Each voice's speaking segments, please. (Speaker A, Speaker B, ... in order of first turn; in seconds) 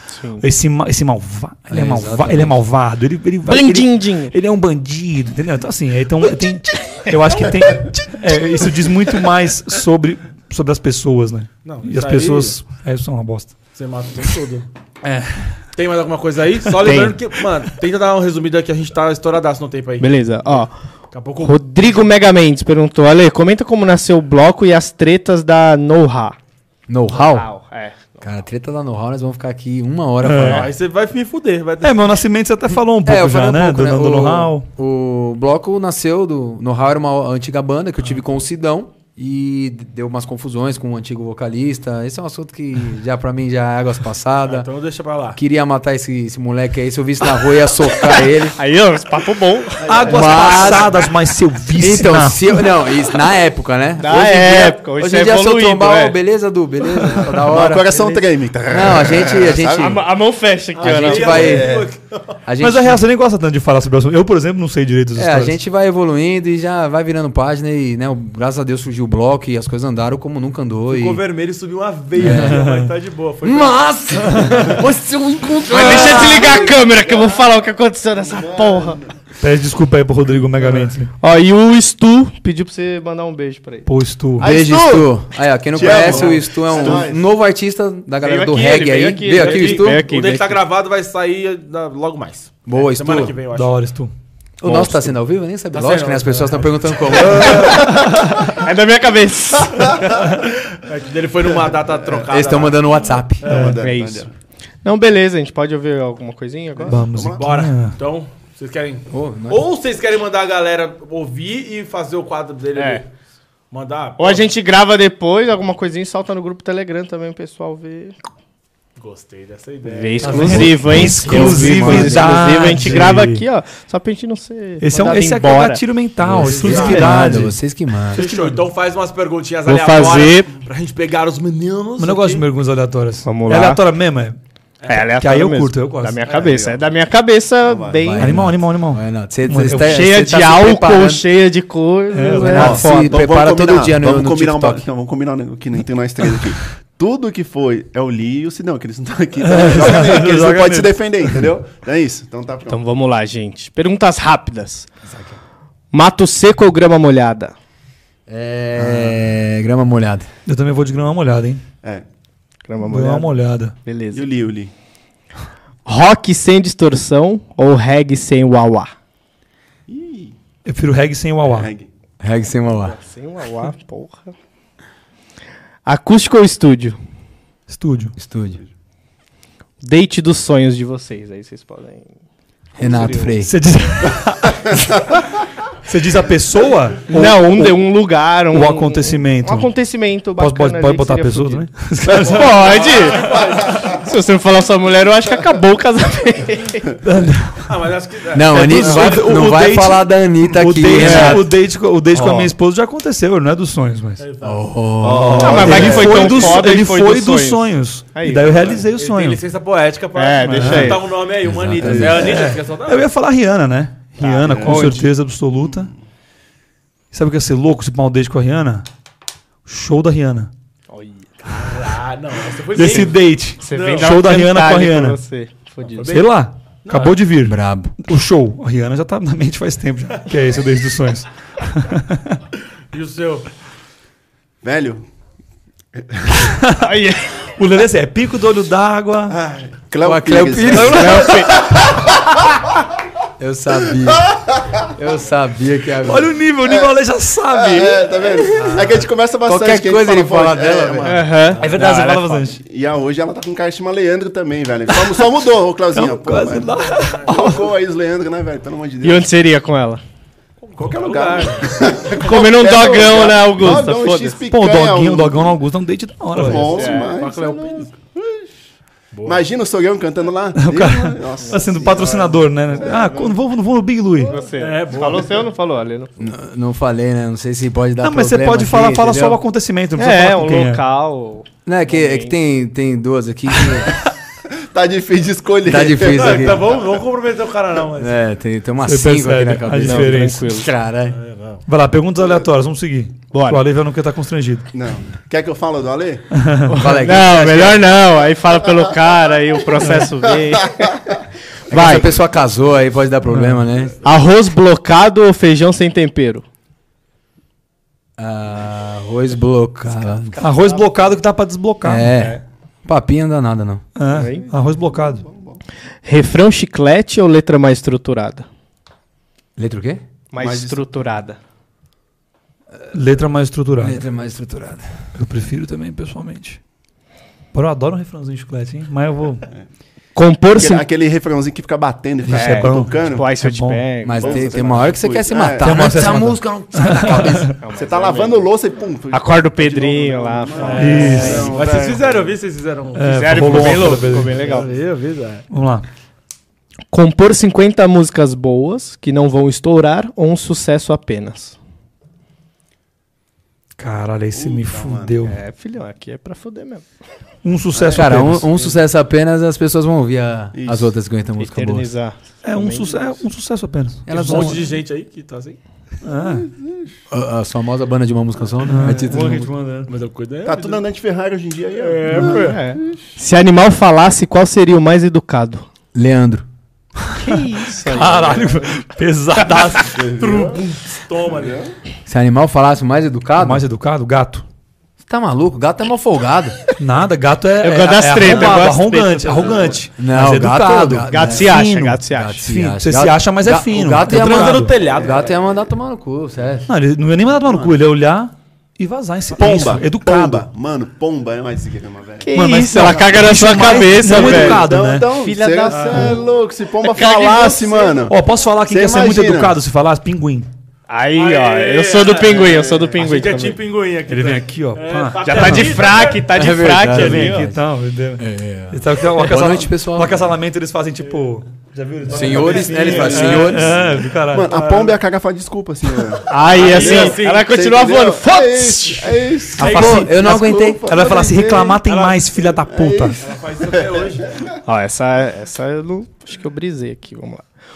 Speaker A: 0.1-0.5, 3.5-4.3, 16.8-17.2, 20.0-20.7, 21.4-26.4, 27.1-28.2, 48.0-50.2, 54.0-56.1, 59.8-61.7, 75.7-79.0, 81.2-83.9, 84.5-85.0, 85.8-87.0, 88.2-90.6, 97.7-100.2, 103.6-104.3, 104.8-107.1, 112.8-113.0, 114.2-118.2, 119.8-125.8, 126.5-127.2, 129.7-130.5, 133.2-133.8, 134.9-138.5, 139.8-143.2, 152.7-154.9, 155.9-157.6, 162.7-164.3, 165.9-168.9, 172.8-174.3, 175.8-177.0, 179.8-182.1, 182.8-183.4, 187.1-196.9, 200.9-201.5, 202.1-202.5, 205.4-207.6, 208.1-208.8, 210.2-211.2, 214.2-215.1, 220.9-221.8, 223.6-226.1, 236.8-237.3, 240.8-241.7, 251.1-252.5, 259.0-260.0, 262.2-264.4, 266.7-267.2, 274.2-276.1, 280.0-282.4, 289.8-290.7, 293.3-293.6, 296.7-300.9, 301.7-302.1, 304.0-306.5, 310.4-310.9, 314.1-314.5, 316.1-318.5, 320.3-321.4, 330.1-330.9, 332.3-334.6, 337.6-338.5, 339.1-341.9, 343.0-344.7, 346.9-351.6, 355.2-356.9, 361.4-363.2, 372.1-375.7, 377.2-378.7, 387.6-389.8, 391.1-392.4, 402.2-406.3, 406.8-408.1, 410.9-413.6, 415.2-417.5, 426.3-429.3, 434.6-437.5
Speaker B: 0.4-13.6, 15.0-15.7, 30.2-30.7, 31.8-34.7, 49.9-52.6, 57.0-57.4, 62.6-65.6, 72.2-72.9, 79.4-81.1, 83.9-84.5, 93.5-94.1, 106.9-108.0, 120.2-123.5, 124.8-128.7, 132.0-134.4, 135.1-136.2, 138.2-140.1, 142.1-142.9, 149.4-151.0, 160.5-161.6, 162.8-163.8, 170.7-171.7, 177.7-178.1, 183.4-185.2, 185.8-187.8, 188.5-192.5, 197.0-197.7, 198.5-204.2, 205.0-209.4, 210.4-211.1, 211.8-215.9, 217.1-218.8, 219.7-220.5, 222.8-225.2, 226.1-232.4, 236.4-239.4, 240.7-241.6, 246.0-248.2, 251.6-252.6, 255.9-257.7, 264.5-266.9, 270.6-274.4, 278.0-280.8, 288.8-290.6, 291.7-294.7, 296.3-296.8, 299.8-300.1, 310.4-312.1, 314.0-315.2, 322.9-324.1, 325.1-326.6, 327.5-329.5, 332.3-333.8, 335.6-337.6, 340.8-341.5, 342.9-344.5, 345.5-345.9, 353.8-355.4, 357.4-358.5, 362.4-364.7, 366.0-366.5, 368.7-369.9, 377.1-380.0, 383.4-384.4, 386.8-394.7, 396.7-400.5, 402.3-406.2, 408.1-410.5, 414.1-415.7, 416.8-424.6, 429.6-433.2
Speaker C: 1.7-2.6, 26.9-27.5, 28.2-30.7, 33.0-44.7, 45.3-48.6, 50.1-50.9, 51.8-60.0, 60.8-61.8, 62.5-63.0, 65.2-71.2, 72.2-72.6, 73.4-76.8, 84.4-90.0, 92.7-93.3, 94.6-98.0, 102.3-103.4, 109.1-109.6, 121.2-122.8, 126.2-128.2, 138.0-141.2, 142.3-144.8, 155.1-155.4, 158.3-160.3, 172.2-173.0, 178.2-178.6, 182.8-183.5, 198.3-201.5, 204.4-206.1, 211.4-212.5, 227.4-227.9, 240.0-241.6, 243.4-244.3, 244.9-246.3, 249.5-251.1, 276.2-279.4, 281.7-284.0, 285.6-286.6, 288.0-291.2, 296.8-297.9, 301.7-304.0, 308.2-310.4, 311.8-313.9, 319.6-320.0, 323.8-325.0, 334.0-337.6, 357.9-361.9, 364.1-364.6, 367.1-369.5, 375.9-376.5, 382.1-383.6, 385.1-386.6, 390.0-396.7, 403.6-404.6, 416.3-417.6, 418.2-420.2, 422.1-423.9, 429.6-431.0
Speaker D: 11.7-12.6, 13.7-14.7, 15.7-20.1, 21.1-21.6, 30.4-32.2, 44.4-45.4, 49.9-50.8, 60.8-62.4, 70.9-73.8, 89.3-93.7, 95.7-97.7, 100.7-102.8, 103.4-103.8, 107.3-113.1, 113.7-114.4, 119.0-120.8, 126.4-127.1, 128.1-132.4, 134.8-135.1, 136.2-136.8, 192.1-193.8, 197.7-199.9, 204.2-204.7, 205.5-206.0, 208.7-213.1, 214.2-215.1, 221.5-224.2, 225.9-226.3, 226.8-227.2, 232.9-233.5, 250.8-251.7, 256.9-257.5, 260.6-262.2, 266.4-267.9, 269.1-269.4, 274.6-275.4, 286.1-288.2, 291.1-291.6, 340.6-345.4, 364.1-365.6, 369.9-370.8, 371.8-372.6, 379.9-381.6, 388.3-388.6, 394.1-395.3, 405.7-406.1, 411.1-416.3, 422.1-423.7, 424.5-425.0, 426.4-427.6, 431.8-432.3, 433.2-434.4
Speaker E: 57.4-60.0, 61.2-61.9, 78.3-79.1, 84.4-85.1, 85.7-87.2, 103.4-104.3, 107.0-107.4, 137.7-138.1, 142.6-152.8, 164.1-164.7, 169.9-170.3, 171.4-171.9, 193.1-193.9, 205.0-206.6, 214.4-214.8, 234.6-235.1, 236.0-236.4, 239.3-242.3, 247.5-251.1, 252.6-259.3, 260.8-265.6, 266.3-268.5, 269.2-273.3, 284.5-286.6, 294.7-296.3, 299.8-301.2, 314.2-315.6, 320.4-320.8, 330.5-333.2, 334.1-336.1, 337.7-342.3, 354.3-355.2, 357.7-358.7, 360.5-360.9, 366.2-366.8, 370.5-373.1, 379.7-380.6, 381.3-381.7, 389.4-389.8, 399.3-402.3, 403.9-409.6, 412.2-412.9, 424.2-431.8, 432.7-434.6